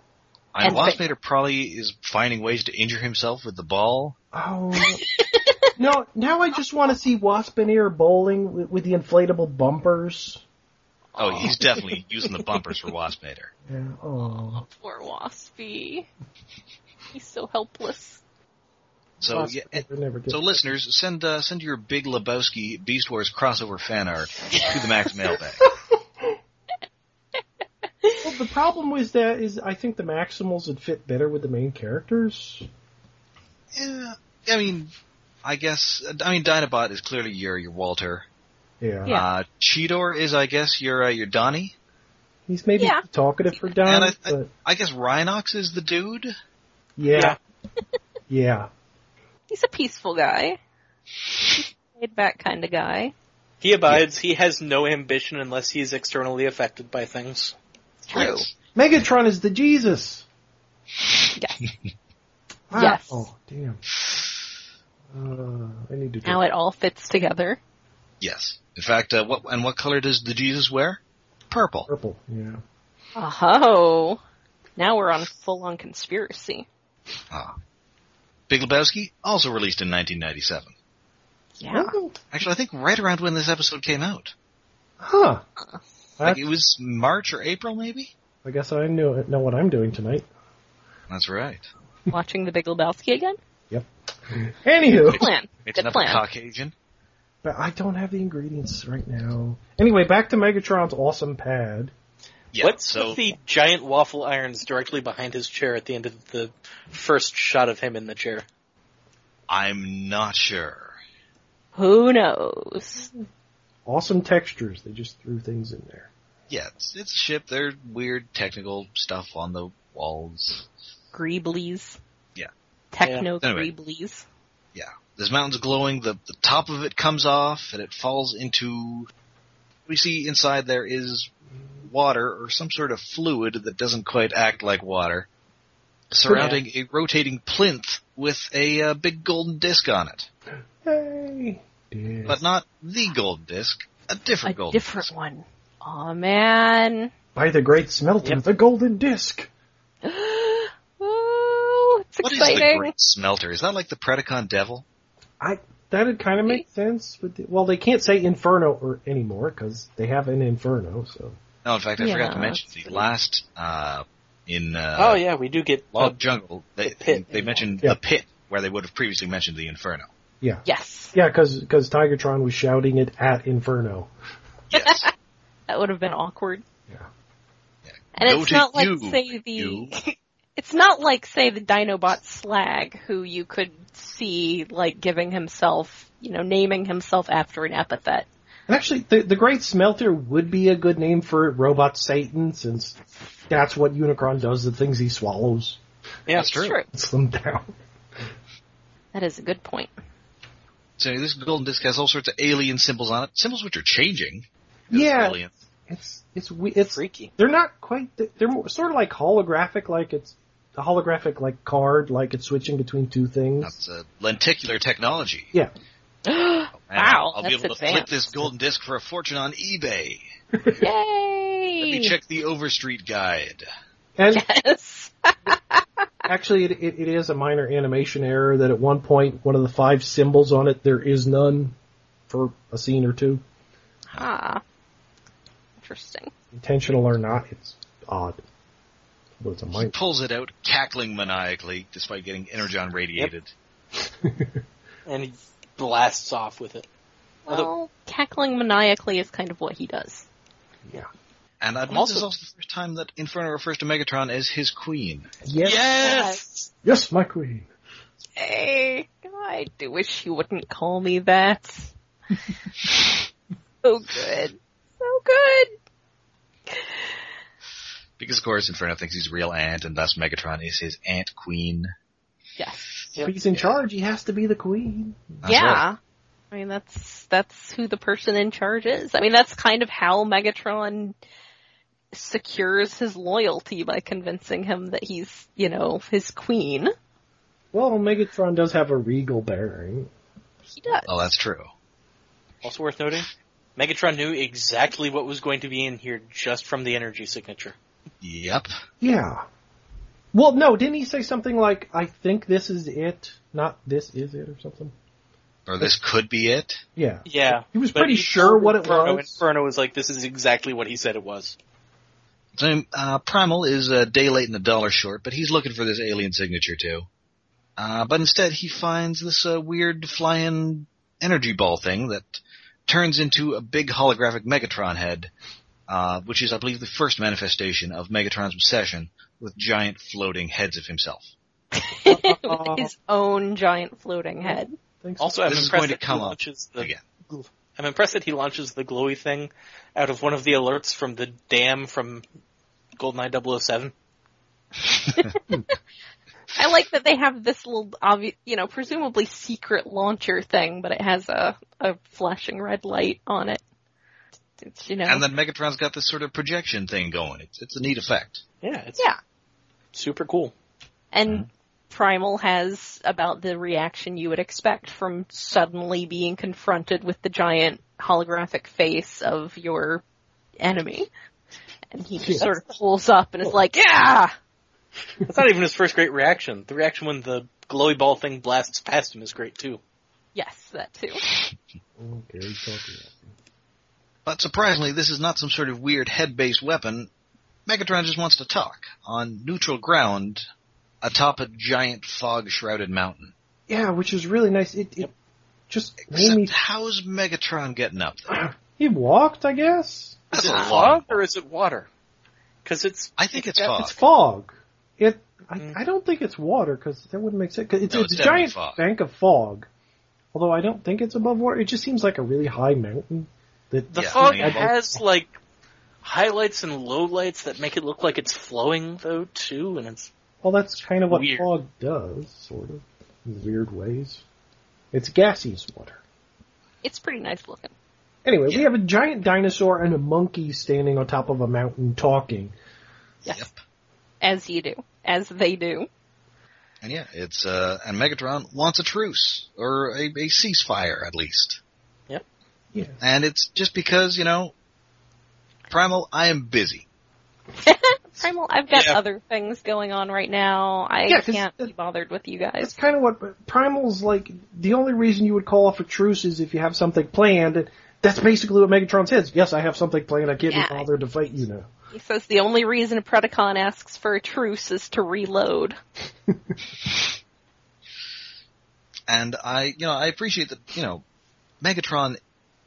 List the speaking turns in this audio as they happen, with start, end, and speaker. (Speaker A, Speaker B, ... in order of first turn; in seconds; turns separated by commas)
Speaker A: 0.5-4.2, Speaker B: 0.6-1.0, Speaker C: 4.3-5.0, Speaker B: 4.8-5.7, Speaker C: 5.8-10.4, Speaker B: 11.2-11.6, Speaker A: 11.2-13.5, Speaker C: 13.7-14.7, Speaker B: 14.7-16.1, Speaker B: 17.1-18.2, Speaker A: 19.2-25.7, Speaker C: 19.2-20.6, Speaker C: 28.2-32.7, Speaker A: 33.7-34.9, Speaker A: 35.4-38.2, Speaker C: 38.8-39.1, Speaker A: 39.1-41.7, Speaker C: 42.5-44.5, Speaker B: 42.8-43.0, Speaker A: 43.8-46.3, Speaker C: 47.0-47.4, Speaker C: 48.3-48.7, Speaker B: 49.5-50.6, Speaker B: 51.5-53.1, Speaker D: 53.6-57.5, Speaker B: 58.0-58.5, Speaker A: 58.1-58.5, Speaker C: 58.7-60.2, Speaker B: 61.4-61.7, Speaker C: 62.7-63.8, Speaker B: 62.7-63.2, Speaker C: 65.1-66.4, Speaker B: 66.2-67.6, Speaker A: 68.2-71.9, Speaker C: 71.9-72.6, Speaker B: 73.2-74.2, Speaker B: 74.8-76.7, Speaker A: 77.3-77.5, Speaker A: 78.5-80.7, Speaker B: 81.6-81.9, Speaker C: 81.7-82.1, Speaker A: 82.3-84.3, Speaker C: 85.0-85.4, Speaker C: 86.2-86.5, Speaker A: 86.2-88.1, Speaker C: 88.4-90.2, Speaker A: 91.1-91.6, Speaker B: 92.1-93.4, Speaker C: 93.7-95.3, Speaker A: 95.0-96.7, Speaker B: 95.0-96.2, Speaker C: 97.4-101.9, Speaker A: 102.5-103.2, Speaker D: 102.6-108.5, Speaker A: 109.5-111.0, Speaker B: 111.7-113.1, Speaker C: 113.8-116.1, Speaker A: 116.5-120.6, Speaker B: 121.1-122.0, Speaker B: 122.9-124.2, Speaker A: 123.4-123.7, Speaker A: 124.7-129.1, Speaker A: 129.9-131.3, Speaker A: 131.9-135.3, Speaker A: 136.1-140.3, Speaker C: 136.2-136.5, Speaker D: 136.3-136.6, Speaker C: 140.8-142.4, Speaker A: 142.2-145.1, Speaker B: 144.4-147.1, Speaker C: 147.3-149.5, Speaker B: 150.0-152.9, Speaker A: 152.2-154.8, Speaker C: 155.4-161.4, Speaker A: 161.6-165.2, Speaker B: 162.0-163.0, Speaker D: 165.0-166.2, Speaker A: 165.9-170.1, Speaker D: 166.8-167.7, Speaker C: 170.4-174.1, Speaker B: 170.6-171.1, Speaker A: 174.7-175.1, Speaker B: 174.8-175.1, Speaker B: 175.7-176.6, Speaker A: 177.8-179.9, Speaker B: 178.2-188.3, Speaker C: 188.7-192.9, Speaker C: 193.5-195.8, Speaker D: 196.3-196.6, Speaker A: 196.3-196.8, Speaker B: 196.5-196.8, Speaker C: 196.9-197.7, Speaker B: 199.1-199.9, Speaker A: 201.0-205.5, Speaker C: 204.9-205.4, Speaker C: 205.9-213.7, Speaker D: 206.8-207.3, Speaker A: 213.6-215.5, Speaker B: 216.2-218.3, Speaker A: 216.7-220.2, Speaker C: 220.5-220.8, Speaker B: 220.8-222.1, Speaker A: 221.8-223.7, Speaker C: 224.2-224.4, Speaker B: 224.3-225.8, Speaker C: 226.3-231.7, Speaker C: 232.3-233.4, Speaker B: 234.1-234.6, Speaker B: 235.8-236.3, Speaker C: 236.5-238.4, Speaker C: 239.4-239.9, Speaker A: 239.7-243.5, Speaker C: 244.2-244.6, Speaker D: 245.1-246.9, Speaker B: 247.5-250.2, Speaker A: 251.6-255.3, Speaker D: 251.9-252.2, Speaker C: 255.4-256.0, Speaker D: 255.6-256.7, Speaker B: 256.0-256.4, Speaker C: 256.8-257.7, Speaker B: 258.4-261.9, Speaker B: 263.8-265.7, Speaker B: 266.7-267.0, Speaker A: 268.2-271.9, Speaker B: 272.6-272.9, Speaker C: 273.2-275.4, Speaker A: 275.4-275.8, Speaker B: 275.4-276.0, Speaker B: 276.5-281.1, Speaker B: 282.1-286.9, Speaker C: 287.7-290.1, Speaker B: 290.7-291.2, Speaker A: 291.0-291.7, Speaker D: 292.6-297.8, Speaker A: 298.2-298.7, Speaker C: 299.0-299.4, Speaker C: 300.3-304.9, Speaker A: 305.6-306.8, Speaker C: 306.9-309.4, Speaker D: 307.2-311.6, Speaker A: 312.6-317.1, Speaker A: 317.8-325.3, Speaker A: 325.9-331.3, Speaker B: 331.8-334.7, Speaker C: 332.1-332.9, Speaker C: 334.4-335.7, Speaker D: 335.2-342.2, Speaker A: 335.4-337.0, Speaker D: 343.0-343.9, Speaker B: 346.5-353.6, Speaker B: 354.6-355.2, Speaker A: 355.0-358.4, Speaker D: 358.6-359.1, Speaker D: 359.9-360.5, Speaker B: 361.1-370.0, Speaker B: 370.6-371.1, Speaker B: 371.9-374.3, Speaker D: 375.2-379.8, Speaker B: 380.3-381.2, Speaker C: 382.0-383.3, Speaker A: 384.2-387.1, Speaker A: 387.6-390.4, Speaker A: 391.0-393.3, Speaker C: 393.7-395.1, Speaker C: 395.7-396.5, Speaker A: 396.1-398.4, Speaker C: 398.3-400.3, Speaker A: 400.3-401.2, Speaker D: 400.3-401.9, Speaker B: 400.5-400.7, Speaker D: 402.6-403.7, Speaker A: 403.2-403.9, Speaker C: 403.7-409.7, Speaker A: 407.9-408.8, Speaker C: 410.3-415.0, Speaker D: 413.9-415.4, Speaker A: 413.9-414.7, Speaker D: 416.0-420.1, Speaker C: 420.4-424.2, Speaker D: 421.1-421.5, Speaker C: 424.9-426.0, Speaker B: 426.8-427.7, Speaker C: 428.2-432.5, Speaker A: 433.2-433.5, Speaker B: 434.2-435.9, Speaker A: 436.8-441.6, Speaker C: 442.7-443.0, Speaker A: 443.0-444.5, Speaker A: 445.7-446.8, Speaker B: 447.6-452.7, Speaker D: 448.7-449.0, Speaker C: 451.1-451.7, Speaker C: 452.6-461.7, Speaker B: 460.5-460.9, Speaker B: 461.9-465.8, Speaker A: 469.1-471.0, Speaker A: 471.6-472.2